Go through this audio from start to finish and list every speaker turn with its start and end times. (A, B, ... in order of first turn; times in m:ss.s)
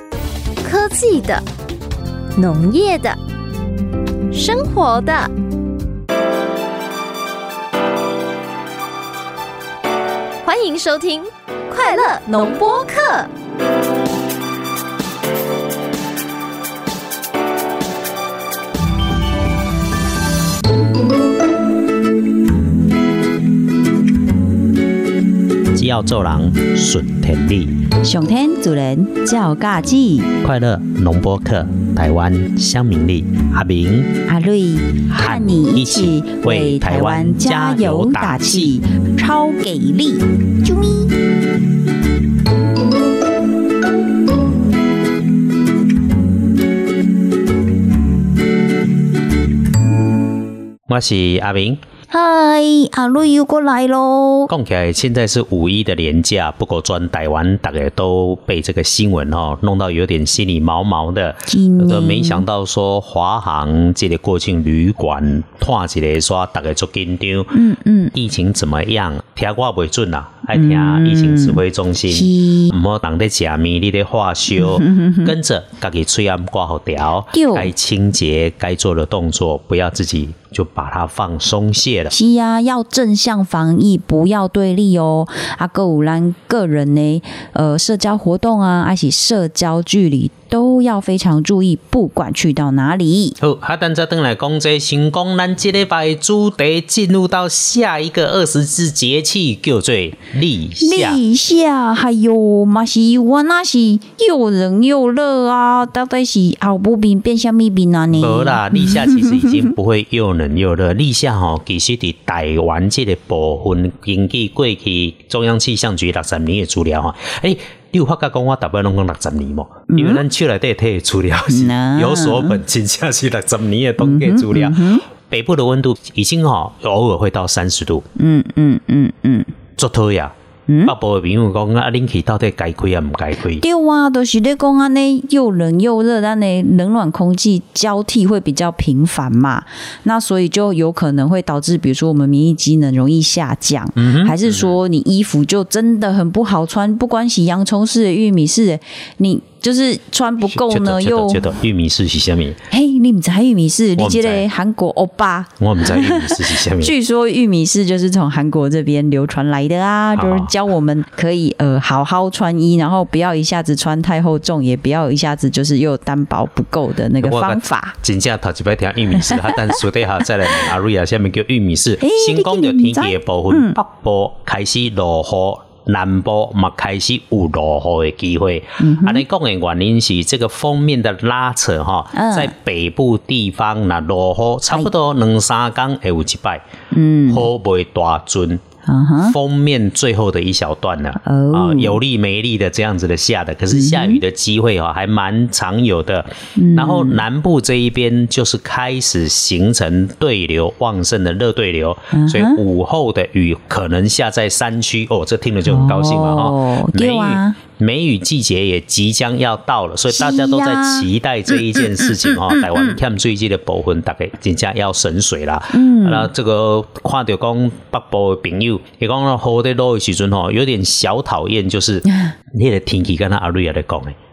0:00.6-0:01.4 A
0:02.4-0:03.2 A
0:04.3-0:05.3 A
0:10.4-0:13.3 A
0:25.7-0:27.8 B
0:28.0-0:30.3 C
0:30.4-0:34.2 B
0:34.3-0:41.2 C
0:35.1-0:38.8 B
0:50.9-0:51.8 B
0:52.1-0:54.5 C
0:54.5-1:07.6 B
1:01.5-1:02.4 C
1:07.5-1:08.1 C
1:08.1-1:22.2 B
1:10.5-1:12.8 C
1:14.6-1:15.3 C
1:17.3-1:17.7 C
1:22.1-1:33.4 C
1:33.4-1:41.2 B
1:40.8-1:49.6 C
1:48.2-2:08.0 B
1:59.9-2:00.2 C
2:01.5-2:02.6 C
2:04.0-2:05.0 C
2:08.2-2:09.5 C
2:09.8-2:10.3 B
2:10.7-2:11.0 C
2:10.8-2:13.6 B
2:13.6-2:31.5 C
2:24.0-2:24.7 B
2:30.5-2:32.6 B
2:32.7-2:48.0 C
2:34.0-2:34.4 B
2:35.6-2:36.9 B
2:40.2-2:40.5 B
2:47.2-3:06.6 B
2:52.0-2:53.8 C
2:58.8-2:59.2 C
3:02.1-3:02.5 C
3:06.9-3:07.5 C
3:07.3-3:08.6 B
3:08.9-3:09.4 C
3:09.2-3:44.2 B
3:11.2-3:12.0 C
3:13.7-3:14.2 C
3:16.6-3:17.2 C
3:22.1-3:22.6 C
3:25.7-3:27.6 C
3:30.1-3:33.0 C
3:35.7-3:36.3 C